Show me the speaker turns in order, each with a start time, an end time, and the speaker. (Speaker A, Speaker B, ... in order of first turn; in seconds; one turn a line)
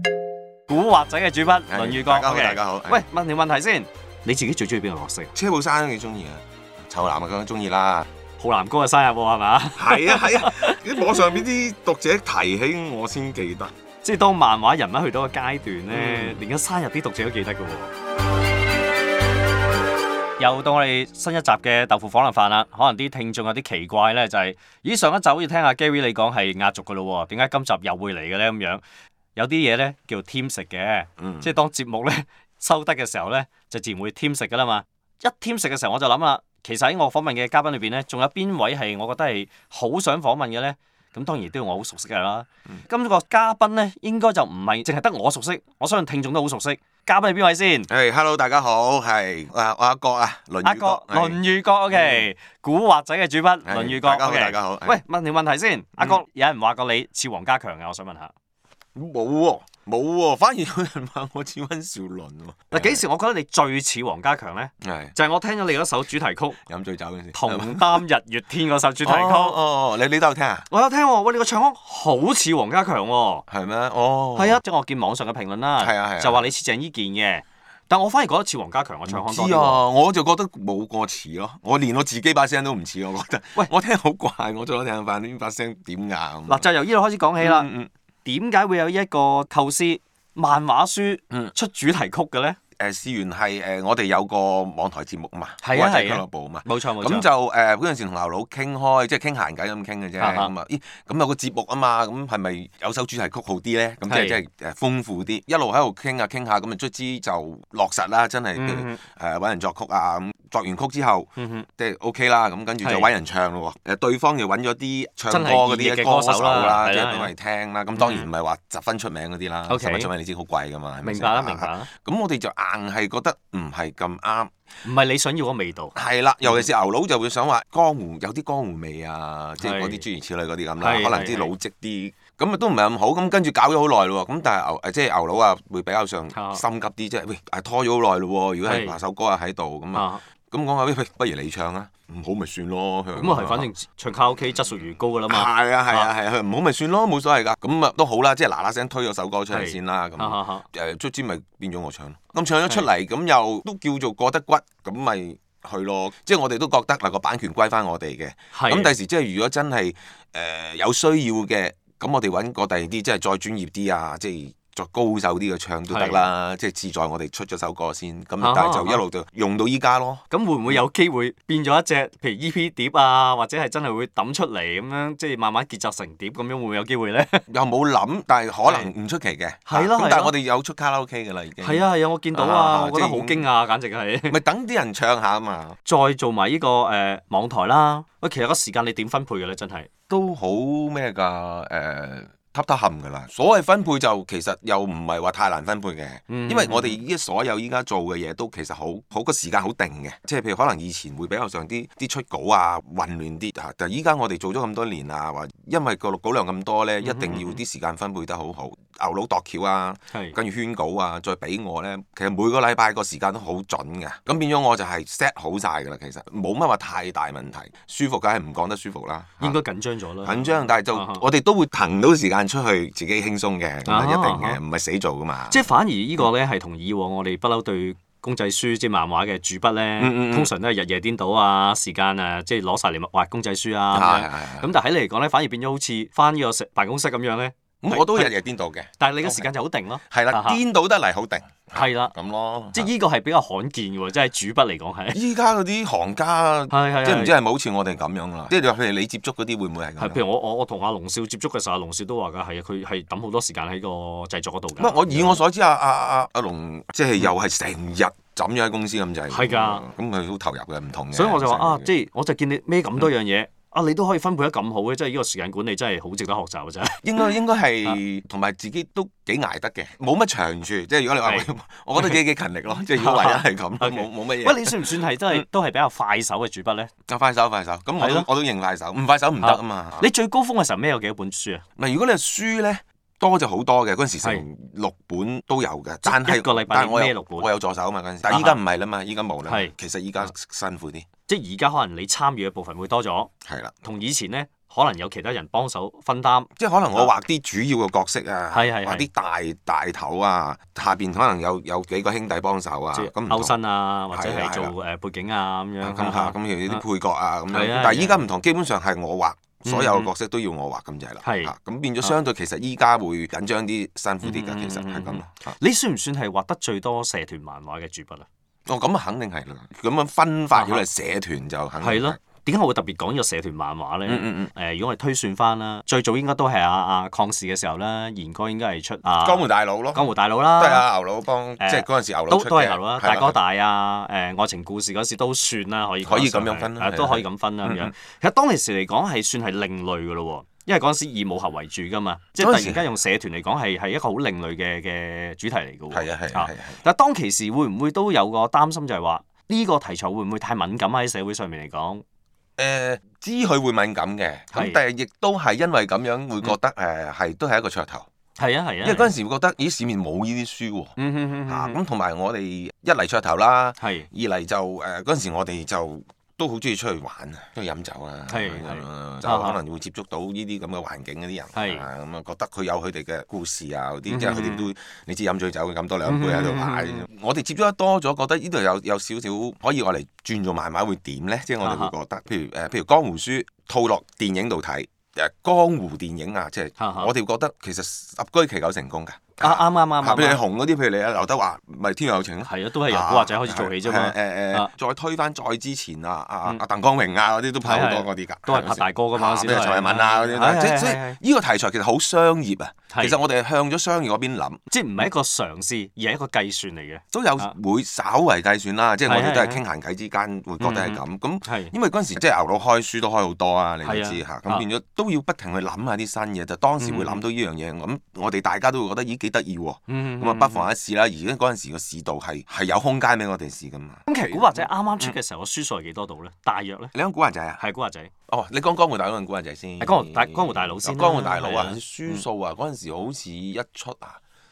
Speaker A: 0.7-5.3
Speaker B: 1.7-3.0
Speaker B: 5.3-8.1
Speaker A: 8.4-11.0
Speaker B: 9.8-13.7
Speaker A: 14.0-17.9
Speaker B: 15.9-16.4
Speaker A: 20.4-28.8
Speaker A: 29.4-47.9
Speaker B: 31.2-31.5
Speaker B: 47.9-51.4
Speaker A: 50.6-58.3
Speaker B: 51.9-52.2
Speaker B: 53.6-55.0
Speaker B: 59.0-63.0
Speaker A: 62.7-66.6
Speaker B: 64.8-65.2
Speaker B: 66.7-68.0
Speaker A: 67.3-69.6
Speaker B: 69.0-70.7
Speaker A: 70.7-73.5
Speaker B: 73.5-74.6
Speaker A: 74.3-79.8
Speaker B: 75.8-76.5
Speaker B: 79.1-86.7
Speaker A: 86.5-87.7
Speaker B: 87.4-87.9
Speaker A: 88.2-92.6
Speaker B: 92.8-124.5
Speaker A: 95.6-97.3
Speaker A: 100.2-100.5
Speaker A: 104.1-104.4
Speaker A: 108.6-109.0
Speaker A: 111.4-111.7
Speaker A: 112.8-113.1
Speaker A: 115.3-117.3
Speaker A: 118.0-118.3
Speaker A: 119.7-120.1
Speaker A: 121.0-121.9
Speaker A: 124.8-126.7
Speaker B: 126.0-143.7
Speaker A: 129.6-130.0
Speaker A: 130.8-131.5
Speaker A: 136.3-136.6
Speaker A: 138.7-139.0
Speaker A: 139.9-140.2
Speaker A: 143.2-146.1
Speaker B: 145.3-170.8
Speaker A: 149.5-150.7
Speaker A: 158.5-158.9
Speaker A: 165.9-166.2
Speaker A: 168.4-169.0
Speaker A: 170.3-177.5
Speaker B: 177.5-183.5
Speaker A: 179.7-180.3
Speaker A: 181.6-184.4
Speaker B: 184.3-185.8
Speaker A: 185.9-189.9
Speaker B: 190.1-219.6
Speaker A: 196.3-197.0
Speaker A: 207.0-207.6
Speaker A: 219.4-221.2
Speaker B: 220.2-225.7
Speaker A: 223.8-224.6
Speaker A: 225.5-238.4
Speaker B: 230.0-230.5
Speaker B: 233.9-234.7
Speaker B: 237.8-239.5
Speaker A: 239.0-240.6
Speaker B: 240.1-242.9
Speaker A: 241.7-242.1
Speaker A: 242.7-245.2
Speaker B: 245.1-250.2
Speaker A: 246.7-247.3
Speaker A: 250.0-255.4
Speaker B: 254.8-261.9
Speaker A: 259.3-259.8
Speaker A: 261.1-267.0
Speaker B: 267.0-275.4
Speaker A: 271.2-272.2
Speaker A: 272.9-276.9
Speaker B: 277.1-280.1
Speaker A: 278.0-278.3
Speaker A: 279.4-281.6
Speaker B: 281.8-291.1
Speaker A: 286.0-287.5
Speaker A: 288.3-288.6
Speaker A: 289.5-289.7
Speaker A: 291.3-293.3
Speaker B: 293.4-293.8
Speaker A: 293.8-297.1
Speaker B: 296.6-303.6
Speaker A: 298.5-299.1
Speaker A: 302.9-306.8
Speaker B: 304.1-304.7
Speaker B: 305.8-315.6
Speaker A: 307.5-308.3
Speaker A: 309.7-310.1
Speaker A: 311.2-312.2
Speaker A: 314.2-318.3
Speaker B: 318.7-322.2
Speaker A: 320.5-320.8
Speaker A: 321.8-330.9
Speaker B: 324.1-324.5
Speaker B: 329.2-333.4
Speaker A: 331.6-352.0
Speaker B: 336.0-337.9
Speaker B: 342.4-342.8
Speaker B: 345.9-346.8
Speaker B: 352.6-358.1
Speaker A: 354.5-354.8
Speaker A: 358.4-359.1
Speaker B: 358.8-360.9
Speaker A: 361.0-361.8
Speaker B: 361.5-404.6
Speaker A: 363.8-364.1
Speaker A: 368.3-369.6
Speaker A: 371.5-371.9
Speaker A: 374.1-374.7
Speaker A: 376.1-377.1
Speaker A: 381.6-381.9
Speaker A: 386.8-387.1
Speaker A: 389.4-390.4
Speaker A: 392.4-394.7
Speaker A: 397.6-401.2
Speaker A: 402.9-403.2
Speaker A: 404.7-407.5
Speaker B: 407.1-425.2
Speaker A: 409.1-409.6
Speaker A: 410.6-411.7
Speaker A: 413.8-414.7
Speaker A: 416.8-417.2
Speaker A: 419.9-420.7
Speaker A: 424.1-426.9
Speaker B: 426.9-427.6
Speaker A: 427.6-428.1
Speaker B: 428.3-434.2
Speaker A: 429.8-432.2